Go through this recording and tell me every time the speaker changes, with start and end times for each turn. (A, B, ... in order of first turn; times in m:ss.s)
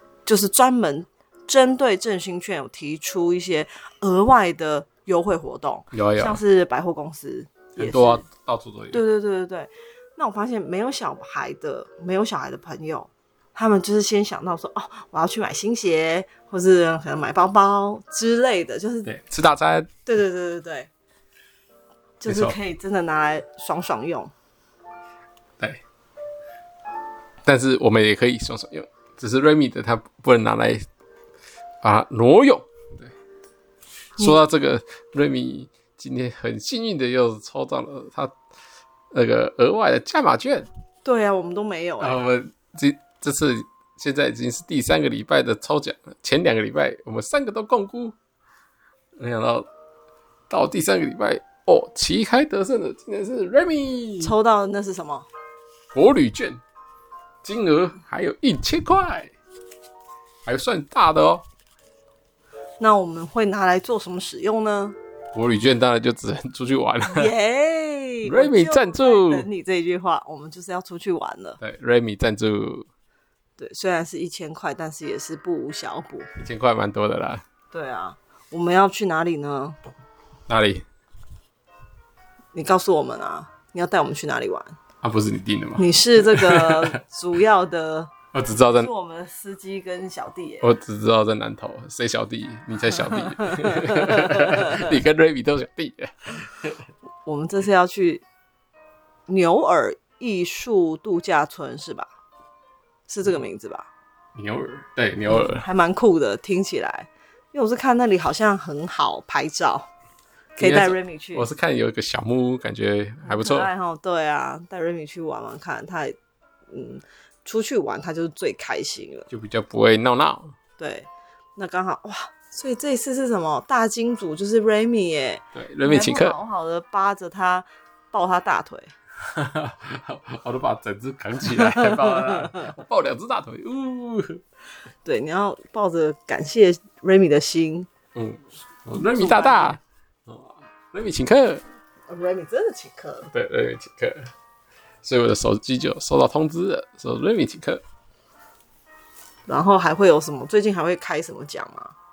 0:00.2-0:08.2 A
0:05.9-0:06.4 B
0:07.8-0:09.0 B
0:08.9-0:19.1 A
0:19.0-0:19.9 B
0:20.1-0:20.9 A
0:22.2-0:24.3 A
0:22.2-0:22.6 B
0:27.4-0:30.8 B
0:31.8-0:33.1 B
0:34.2-0:38.3 B
0:39.1-0:40.7 B
0:41.0-0:42.2 A
0:42.0-0:48.2 B
0:49.2-0:49.7 B
0:50.5-0:54.3 B
0:54.2-0:55.3 A
0:55.9-0:56.6 B
0:57.4-0:59.3 B
1:00.4-1:01.4 B
1:02.8-1:05.0 A
1:05.3-1:07.3 B
1:07.1-1:11.6 A
1:08.2-1:09.5 B
1:11.6-1:12.9 B
1:13.6-1:16.3 A
1:16.4-1:17.4 B
1:17.7-1:19.8 A
1:20.5-1:20.8 B
1:22.5-1:24.8 A
1:25.0-1:26.9 B
1:25.8-1:28.1 A
1:28.3-1:28.9 B
1:28.7-1:30.7 A
1:30.6-1:36.8 B
1:32.9-1:34.9 A
1:37.2-1:38.2 A
1:39.3-1:42.1 A
1:43.1-1:43.9 A
1:44.4-1:45.7 B
1:45.3-1:49.9 A
1:50.6-1:53.7 B
1:50.6-1:51.5 A
1:53.2-1:56.2 A
1:56.7-1:59.3 A
1:59.3-2:00.6 B
2:00.8-2:08.9 A
2:05.5-2:06.4 B
2:09.2-2:14.4 B
2:11.5-2:12.8 A
2:15.0-2:17.9 A
2:18.1-2:21.6 B
2:18.9-2:19.8 A
2:22.1-2:23.3 A
2:23.3-2:24.3 B
2:25.0-2:27.8 B
2:29.5-2:31.9 A